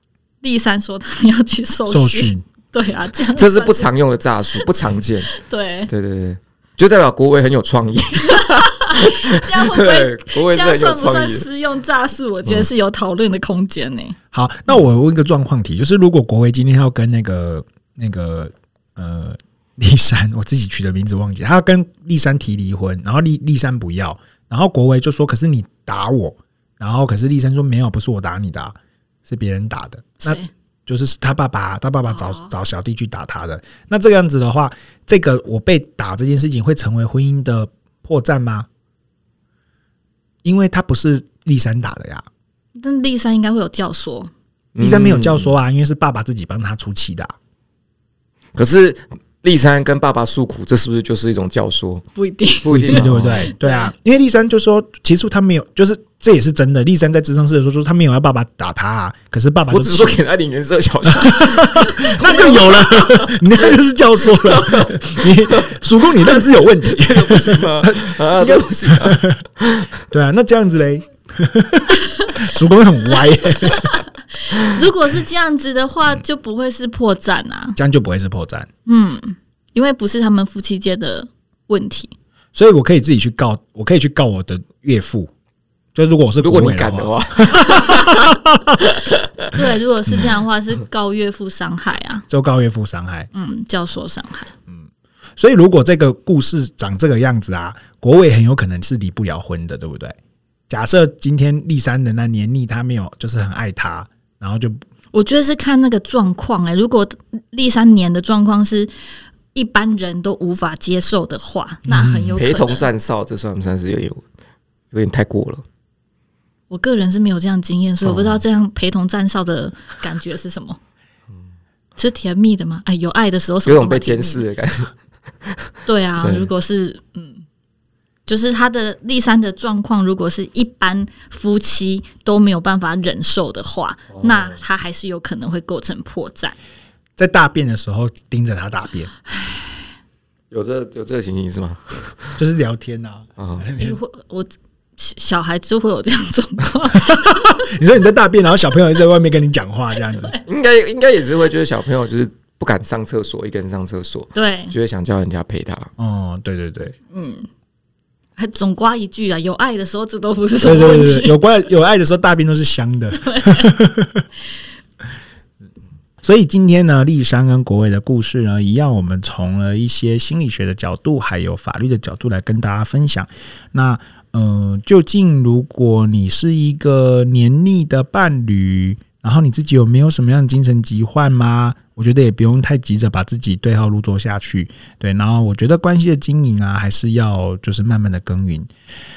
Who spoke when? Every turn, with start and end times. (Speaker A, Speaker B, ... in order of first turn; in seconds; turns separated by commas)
Speaker A: 0.4-3.9, Speaker B: 1.9-2.4, Speaker C: 3.3-5.3, Speaker A: 5.3-5.9, Speaker C: 5.9-11.5, Speaker A: 8.2-14.2, Speaker B: 14.3-38.7, Speaker A: 30.2-30.5, Speaker A: 32.1-32.5, Speaker B: 40.4-42.2, Speaker A: 42.8-44.3, Speaker C: 44.8-45.5, Speaker B: 44.8-47.3, Speaker C: 48.5-52.0, Speaker A: 52.2-53.9, Speaker C: 52.6-53.5, Speaker B: 52.8-60.2, Speaker C: 59.7-69.9, Speaker B: 61.1-69.4, Speaker A: 62.0-62.8, Speaker B: 70.1-74.0, Speaker A: 73.6-77.8, Speaker B: 77.8-78.7, Speaker A: 78.9-82.1, Speaker B: 82.5-85.3, Speaker B: 86.0-88.8, Speaker C: 86.4-89.5, Speaker A: 89.5-92.2, Speaker B: 92.3-93.3, Speaker A: 93.3-94.5, Speaker B: 95.4-100.2, Speaker B: 100.7-104.8, Speaker A: 105.1-108.9, Speaker A: 109.5-112.9, Speaker B: 111.9-112.4, Speaker C: 112.4-114.2, Speaker C: 114.9-115.6, Speaker A: 116.7-120.8, Speaker A: 122.0-124.5, Speaker C: 123.7-124.9, Speaker C: 125.5-125.7, Speaker A: 125.9-127.4, Speaker C: 126.2-126.5, Speaker A: 128.3-136.6, Speaker C: 134.2-134.5, Speaker B: 137.2-139.1, Speaker A: 139.4-139.7, Speaker C: 140.5-142.3, Speaker B: 142.4-144.0, Speaker C: 143.4-143.7, Speaker A: 143.8-147.7, Speaker B: 146.9-150.3, Speaker C: 150.4-155.9, Speaker A: 154.3-154.7, Speaker B: 156.0-157.0, Speaker A: 157.1-157.5, Speaker A: 158.4-161.4, Speaker B: 160.6-164.3, Speaker A: 163.2-163.7, Speaker B: 166.2-188.7